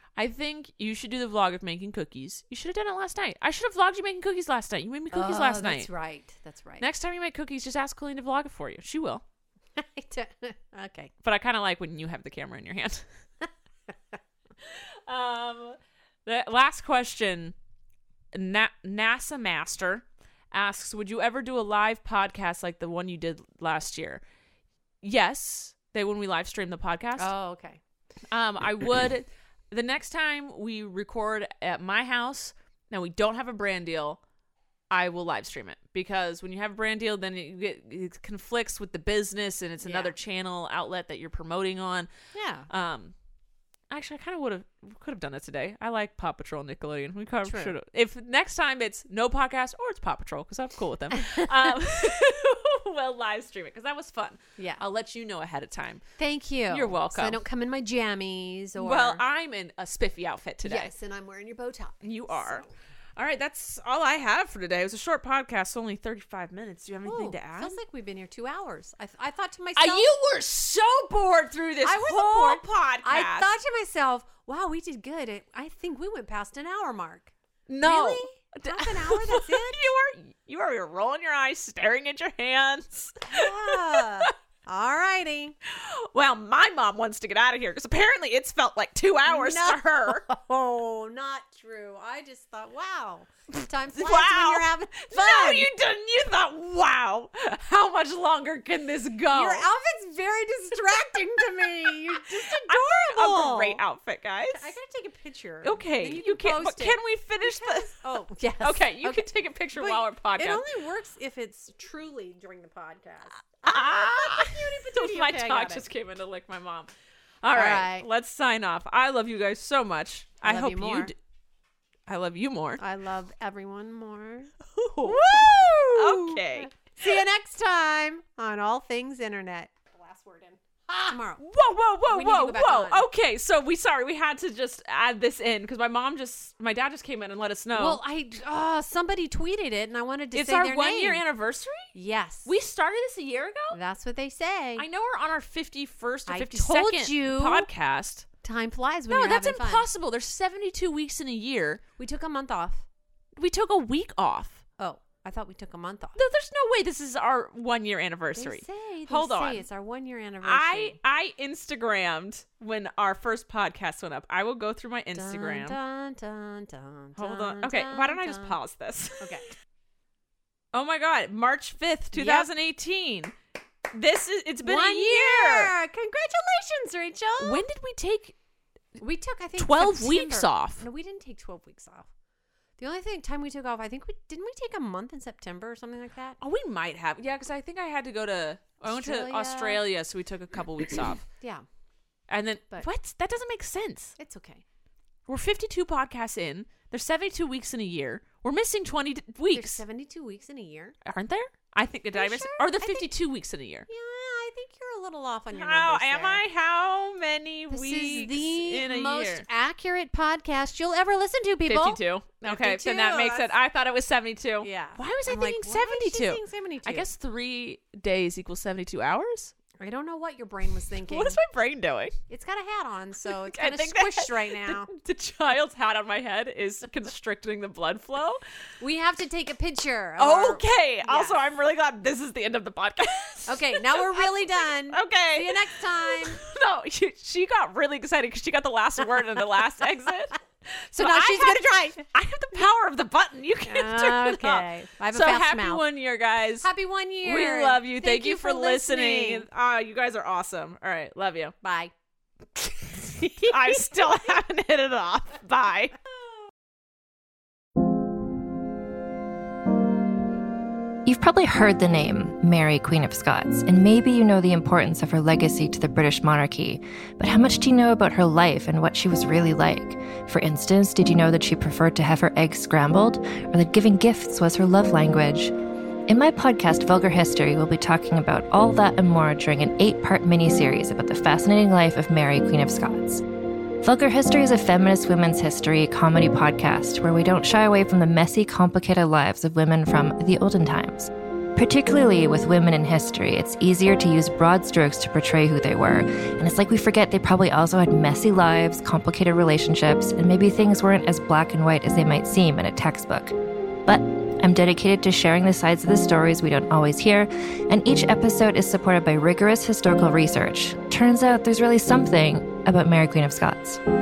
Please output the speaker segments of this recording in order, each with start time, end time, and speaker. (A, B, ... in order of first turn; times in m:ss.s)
0:00.2-0:05.9 A
0:05.1-0:06.8 B
0:06.8-0:09.2 A
0:09.8-0:11.1 B
0:11.2-0:13.0 A
0:14.6-0:17.5 A
0:18.3-0:24.2 A
0:25.0-0:27.3 A
0:27.2-0:27.8 B
0:28.3-0:34.2 A
0:34.9-0:42.1 A
0:39.8-0:40.1 B
0:42.3-0:42.7 B
0:42.7-0:43.1 A
0:43.9-0:56.0 A
0:47.4-0:47.7 B
0:51.2-0:51.5 B
0:56.2-0:59.2 B
0:56.7-0:57.4 A
0:58.8-1:00.9 A
1:00.6-1:02.7 B
1:02.0-1:02.6 A
1:03.2-1:07.8 A
1:07.0-1:10.1 B
1:09.8-1:13.5 A
1:11.8-1:19.9 B
1:17.7-1:24.3 A
1:23.2-1:25.6 B
1:25.7-1:30.2 A
1:29.2-1:35.7 B
1:33.9-1:39.6 A
1:39.3-1:43.8 B
1:42.1-1:44.7 A
1:44.5-1:55.8 B
1:45.6-1:48.1 A
1:48.6-1:50.6 A
1:53.6-1:56.9 A
1:57.4-2:01.1 A
1:57.5-1:58.1 B
2:00.4-2:01.1 B
2:02.1-2:02.8 A
2:02.8-2:11.4 B
2:04.8-2:06.7 A
2:11.4-2:18.0 A
2:12.1-2:13.0 B
2:17.7-2:21.2 B
2:20.3-2:21.9 A
2:21.9-2:22.5 B
2:22.4-2:23.8 A
2:23.7-2:24.8 B
2:24.8-2:28.3 A
2:26.3-2:27.7 B
2:28.4-2:29.9 B
2:29.1-2:31.8 A
2:32.0-2:32.8 B
2:33.4-2:34.6 A
2:34.8-2:36.2 B
2:36.2-2:39.6 A
2:38.4-2:41.0 B
2:40.4-2:45.8 A
2:45.1-2:48.6 B
2:47.2-2:49.4 A
2:49.2-2:49.5 B
2:50.7-2:53.3 A
2:52.1-2:52.5 B
2:53.9-2:55.7 A
2:54.6-2:57.6 B
2:57.4-2:58.3 A
2:59.0-3:02.1 B
2:59.6-3:00.8 A
3:02.8-3:06.4 B
3:06.4-3:11.2 A
3:08.8-3:09.8 B
3:11.4-3:11.6 B
3:12.3-3:14.2 A
3:14.2-3:14.6 B
3:15.3-3:19.8 A
3:19.5-3:20.9 B
3:21.0-3:23.9 A
3:22.1-3:23.1 B
3:23.9-3:26.4 B
3:25.5-3:29.4 A
3:27.7-3:33.5 B
3:31.7-3:39.5 A
3:34.6-3:37.0 B
3:39.8-3:41.4 B
3:41.0-3:42.1 A
3:42.3-3:44.9 B
3:43.2-3:48.4 A
3:48.8-3:51.4 B
3:50.2-4:06.7 A
3:53.5-3:56.4 B
4:00.9-4:02.0 B
4:03.6-4:05.8 B
4:06.6-4:09.4 B
4:07.2-4:11.5 A
4:11.6-4:11.9 B
4:13.1-4:14.0 B
4:13.2-4:15.9 A
4:21.0-4:35.5 C
4:36.1-4:43.2 C
4:43.8-5:03.3 C
5:03.8-5:13.8 C